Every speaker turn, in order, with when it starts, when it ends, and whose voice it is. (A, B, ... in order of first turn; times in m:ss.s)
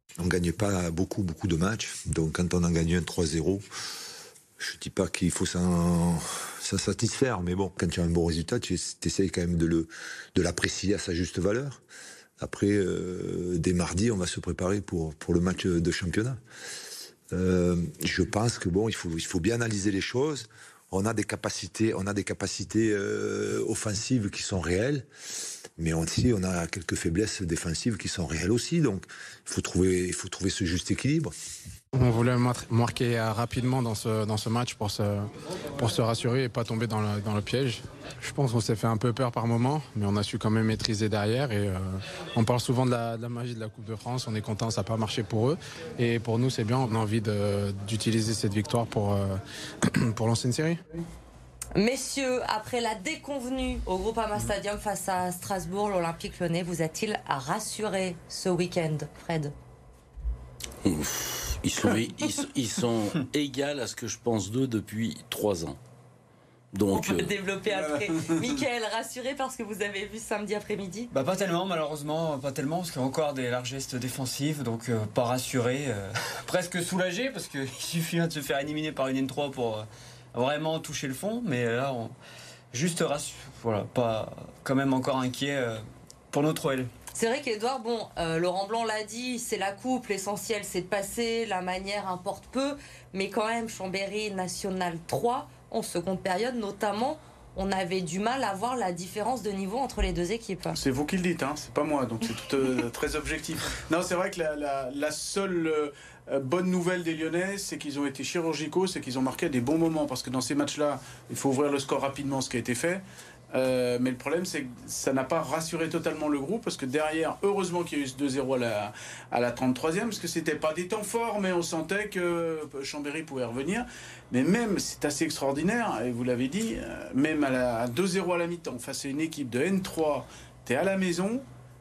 0:00.2-0:03.6 A
0:04.6-0:11.8 A
0:12.4-0:16.4 A
0:17.3-0:25.1 A
0:25.8-0:31.3 A
0:31.9-0:50.8 B
0:51.7-0:59.5 C
1:00.8-1:05.8 D
1:06.7-1:07.3 D
1:06.9-1:11.1 C
1:11.1-1:22.1 E
1:22.7-1:26.9 E
1:27.1-1:40.8 C
1:40.7-2:11.4 F